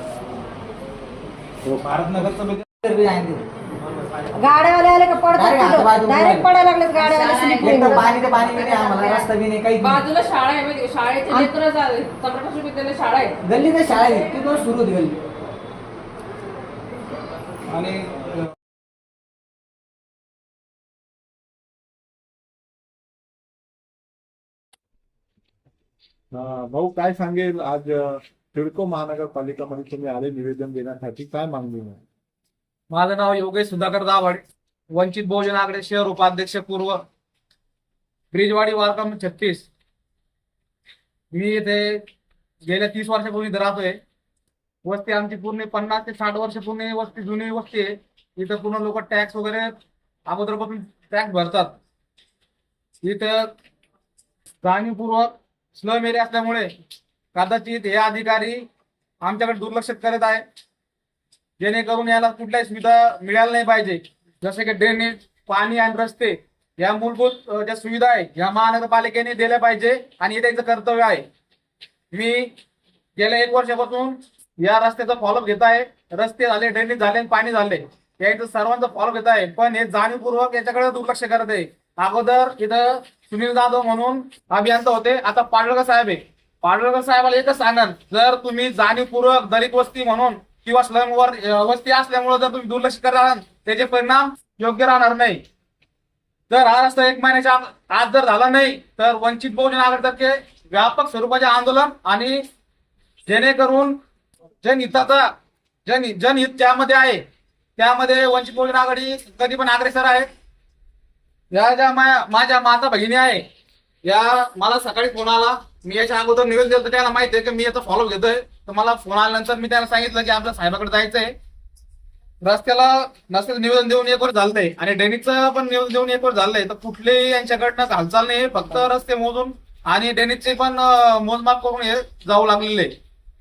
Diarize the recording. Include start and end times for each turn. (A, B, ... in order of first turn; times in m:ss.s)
0:01.7-0:02.6 A
0:02.8-0:03.4 B
0:04.4-0:09.3 C
0:05.5-0:06.4 B
0:07.6-0:10.0 B
0:09.8-0:13.4 D
0:13.4-0:15.2 B
0:17.7-0:18.3 A
0:26.4-0:32.0 E
0:32.9-0:37.0 A
0:38.3-0:39.7 A
0:41.3-0:42.0 A
0:42.6-0:44.0 A
0:44.8-0:49.7 A
0:50.3-0:51.8 A
0:53.0-0:53.5 A
0:54.6-0:56.7 A
0:57.4-0:58.7 A
0:59.2-1:00.4 A
1:01.6-1:11.3 A
1:12.1-1:12.5 A
1:13.2-1:35.4 A
1:36.5-1:42.4 A
1:43.3-1:44.0 A
1:44.6-1:45.3 A
1:45.9-1:47.2 A
1:47.8-1:50.3 A
1:51.5-1:53.4 A
1:54.0-2:01.3 A
2:02.4-2:12.9 A